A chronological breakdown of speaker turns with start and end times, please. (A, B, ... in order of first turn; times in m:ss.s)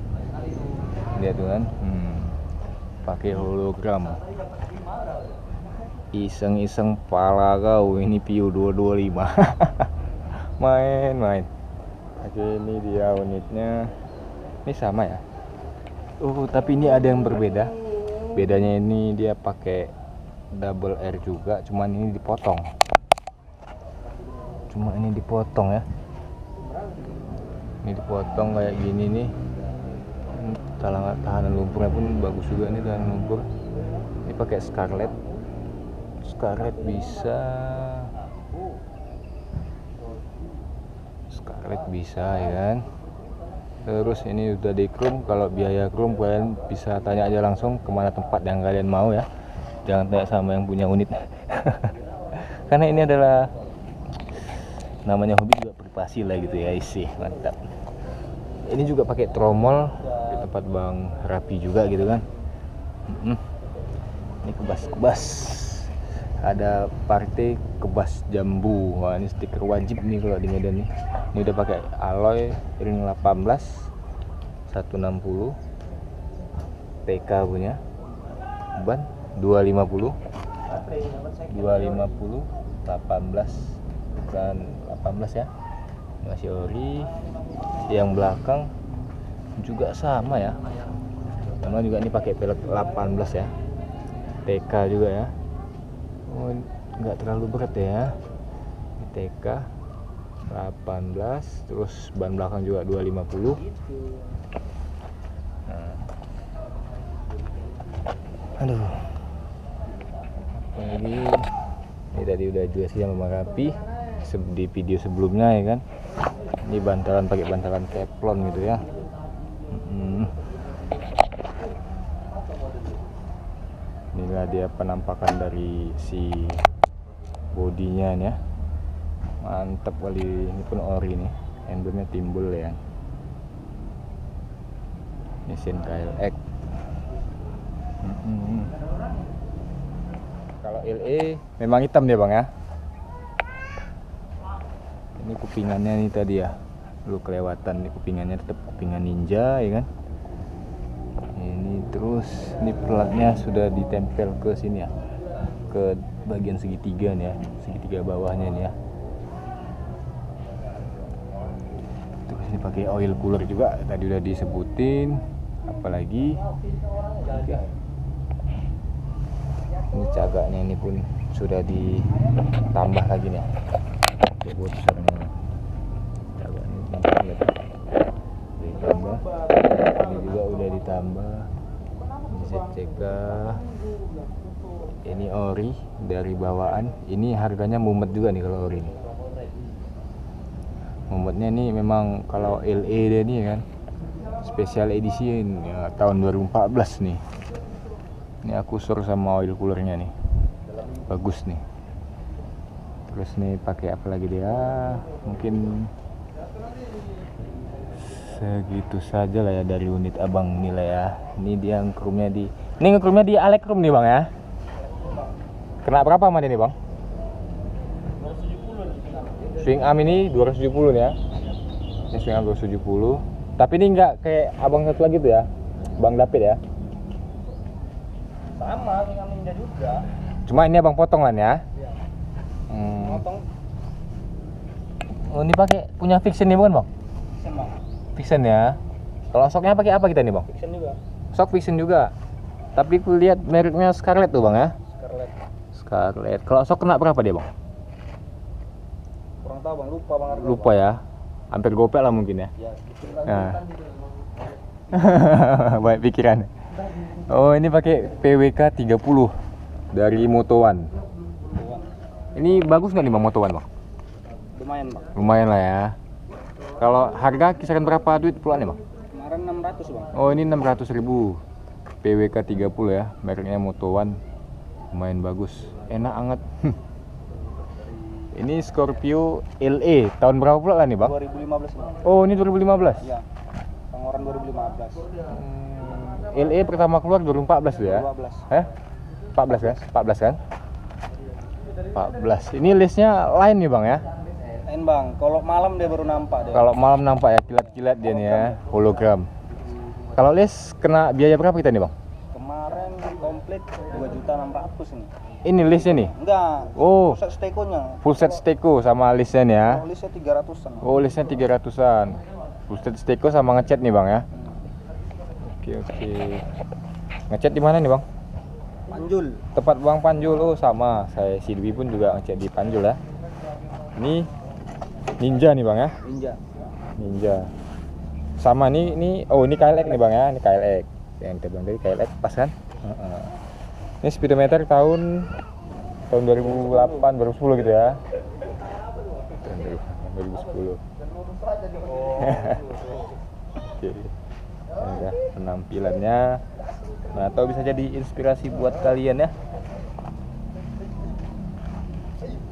0:01.1-0:02.4 A
0:03.0-0:04.2 A
0:06.1-0:09.9 A
0:10.4-0:11.5 A
0:12.2-0:13.9 A
0:14.6-0:15.2 A
0:16.2-0:17.7 A
0:18.3-0:19.9 A
0:20.5-0:22.7 A
0:24.7-0:25.8 A
0:27.8-0:29.3 A
0:30.3-0:33.4 A
0:34.2-0:35.2 A
0:36.2-0:38.1 A
0:41.3-0:42.8 A
0:43.8-0:49.3 A
0:49.8-0:53.5 A
0:54.3-0:57.6 A
0:58.6-1:02.2 A
1:03.1-1:03.4 A
1:04.4-1:13.9 A
1:14.7-1:15.6 A
1:17.0-1:17.8 A
1:18.8-1:20.2 A
1:21.4-1:25.5 A
1:26.2-1:27.1 A
1:27.9-1:28.7 A
1:29.6-1:30.6 A
1:31.6-1:33.5 A
1:34.4-1:35.3 A
1:36.3-1:38.1 A
1:39.0-1:39.7 A
1:40.5-1:43.6 A
1:45.7-1:46.0 A
1:48.6-1:49.1 A
1:50.7-1:51.5 A
1:52.1-1:55.8 A
1:56.6-1:58.8 A
1:59.7-2:00.4 A
2:04.1-2:06.6 A
2:07.5-2:08.4 A
2:09.4-2:12.8 A
2:15.5-2:16.4 A
2:18.0-2:18.8 A
2:20.6-2:22.5 A
2:25.2-2:29.9 A
2:31.3-2:34.9 A
2:35.7-2:38.7 A
2:42.3-2:46.4 A
2:47.2-2:47.7 A
2:49.9-2:52.1 A
2:52.7-2:53.5 A
2:54.4-2:55.3 A
2:56.3-2:57.5 A
2:58.6-3:01.5 A
3:02.3-3:03.6 A
3:05.0-3:09.0 A
3:11.1-3:13.6 A
3:14.4-3:17.2 A
3:18.4-3:20.1 A
3:21.1-3:21.6 A
3:23.1-3:25.9 A
3:28.0-3:34.3 A
3:35.8-3:36.8 A
3:39.5-3:41.2 A
3:42.1-3:46.6 A
3:48.6-3:50.1 B
3:50.4-3:51.6 A
3:52.7-3:53.2 A
3:53.0-3:53.4 B
3:55.2-3:56.9 A
3:57.4-3:57.8 B
3:58.2-3:58.8 A
3:59.3-4:00.5 A
4:00.5-4:01.0 B
4:01.3-4:02.1 A
4:02.7-4:04.8 A
4:04.9-4:05.4 B
4:05.7-4:07.5 A
4:09.4-4:10.8 B
4:10.3-4:12.5 A
4:12.6-4:13.2 B
4:13.1-4:13.6 A
4:14.9-4:19.4 A
4:19.9-4:20.9 A
4:21.5-4:21.9 B
4:22.3-4:23.6 A
4:24.5-4:25.1 B
4:25.1-4:26.0 A
4:26.8-4:28.8 A
4:29.1-4:30.2 B
4:30.1-4:31.4 A
4:32.0-4:34.2 A
4:34.9-4:36.7 A
4:38.3-4:41.2 A
4:41.0-4:42.0 B
4:42.0-4:43.1 A
4:43.9-4:45.1 B
4:45.2-4:48.7 A
4:47.8-4:48.4 B
4:49.3-4:50.4 A
4:51.9-4:54.0 A
4:54.6-4:56.7 B
4:56.5-4:59.3 A
4:58.1-4:58.6 B
5:00.1-5:01.9 A
5:02.3-5:05.1 B
5:05.4-5:06.1 A
5:05.7-5:08.2 B
5:06.7-5:07.2 A
5:08.0-5:09.8 A
5:09.6-5:10.9 B
5:10.8-5:14.2 A
5:15.4-5:16.4 A
5:17.3-5:18.0 A
5:18.9-5:19.4 B
5:19.5-5:23.0 A
5:24.0-5:24.3 A
5:25.2-5:25.9 A
5:26.0-5:26.4 B
5:27.0-5:27.5 A
5:28.4-5:33.3 A
5:34.0-5:35.3 A
5:36.1-5:38.0 A
5:36.5-5:36.8 B
5:39.4-5:40.8 A
5:41.9-5:42.2 B
5:42.1-5:42.8 A
5:43.6-5:44.1 A
5:44.8-5:46.4 A
5:47.1-5:49.3 A